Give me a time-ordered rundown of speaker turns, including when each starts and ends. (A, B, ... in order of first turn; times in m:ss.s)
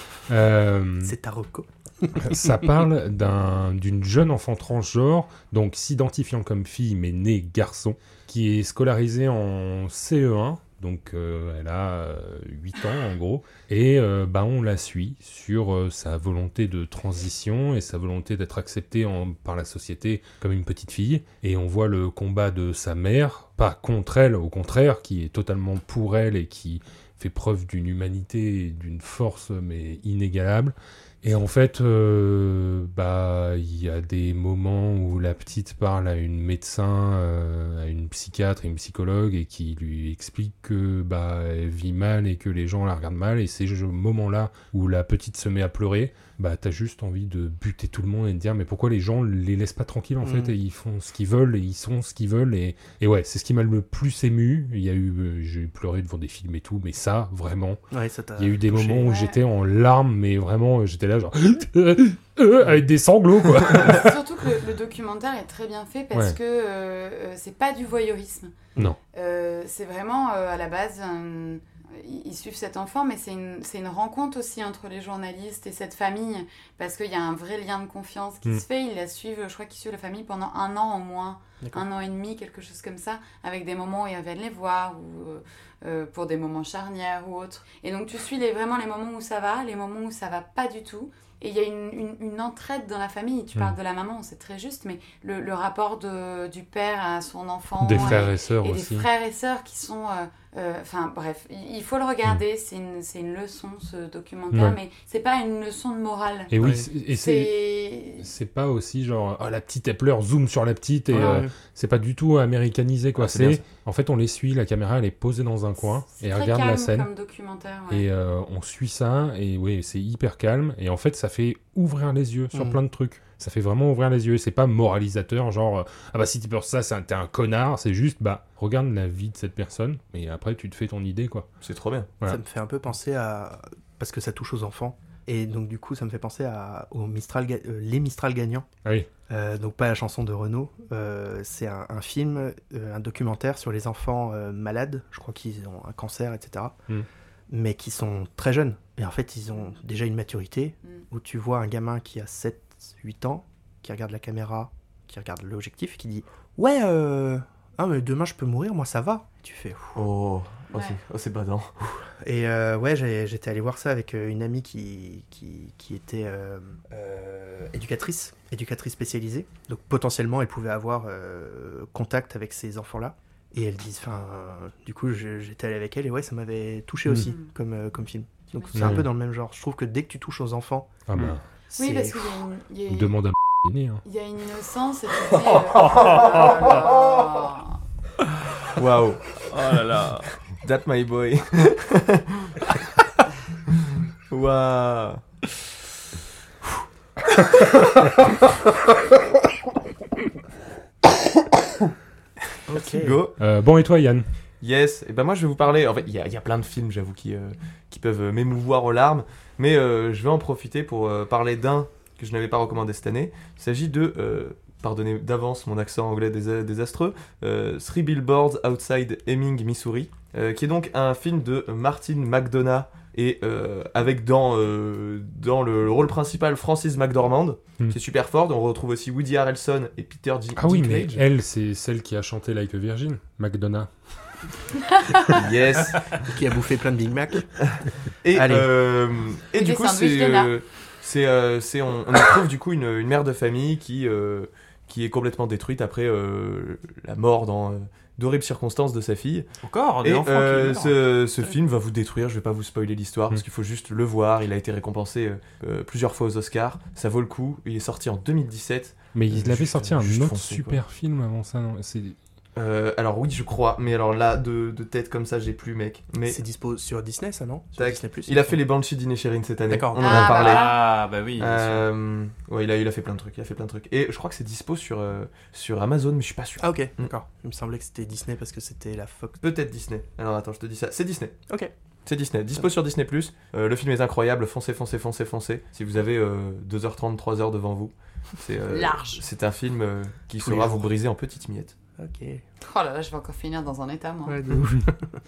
0:00.3-0:01.1 A
0:01.0-0:02.6 B
0:02.2-0:57.8 A
0:50.2-0:50.5 B
0:57.9-0:59.1 B
0:58.4-1:04.2 A
0:59.0-0:59.4 C
1:03.7-1:08.5 C
1:09.1-1:46.5 C
1:37.8-1:39.1 A
1:44.5-1:44.8 A
1:46.5-1:47.5 A
1:46.6-1:46.9 B
1:47.1-1:48.3 C
1:48.2-1:57.1 A
1:51.1-1:51.5 B
1:53.2-1:53.6 D
1:56.1-1:58.0 C
1:57.9-2:11.5 A
2:02.5-2:02.8 B
2:11.6-2:12.1 D
2:12.2-2:18.7 B
2:19.3-2:26.8 B
2:27.5-2:40.0 B
2:40.0-2:41.7 D
2:42.2-3:01.0 B
2:57.2-2:57.5 C
2:58.7-2:59.1 A
3:01.1-3:01.4 A
3:01.7-3:02.4 B
3:01.7-3:03.2 C
3:02.9-3:04.0 A
3:04.0-3:07.8 C
3:05.3-3:07.4 D
3:08.7-3:12.7 D
3:09.5-3:10.3 E
3:14.3-3:15.2 D
3:22.7-3:23.2 B
3:22.7-3:23.4 D
3:23.4-3:24.2 A
3:24.6-3:51.1 D
3:50.6-3:53.9 A
3:50.7-3:51.2 B
3:55.3-3:56.2 D
3:56.2-3:57.5 B
3:58.2-4:09.5 D
3:58.3-3:58.7 B
3:59.5-4:00.5 C
4:09.6-4:11.0 E
4:10.0-4:20.8 D
4:19.1-4:22.2 A
4:22.6-4:26.4 D
4:26.2-4:28.6 B
4:27.8-4:30.7 D
4:29.7-4:30.2 B
4:30.0-4:30.8 C
4:30.1-4:31.8 E
4:31.4-4:37.1 D
4:36.6-4:39.4 B
4:39.4-4:41.4 D
4:42.0-4:51.7 D
4:48.7-4:49.2 C
4:50.4-4:50.9 B
4:52.0-4:52.4 B
4:52.6-4:54.4 C
4:54.2-4:55.2 B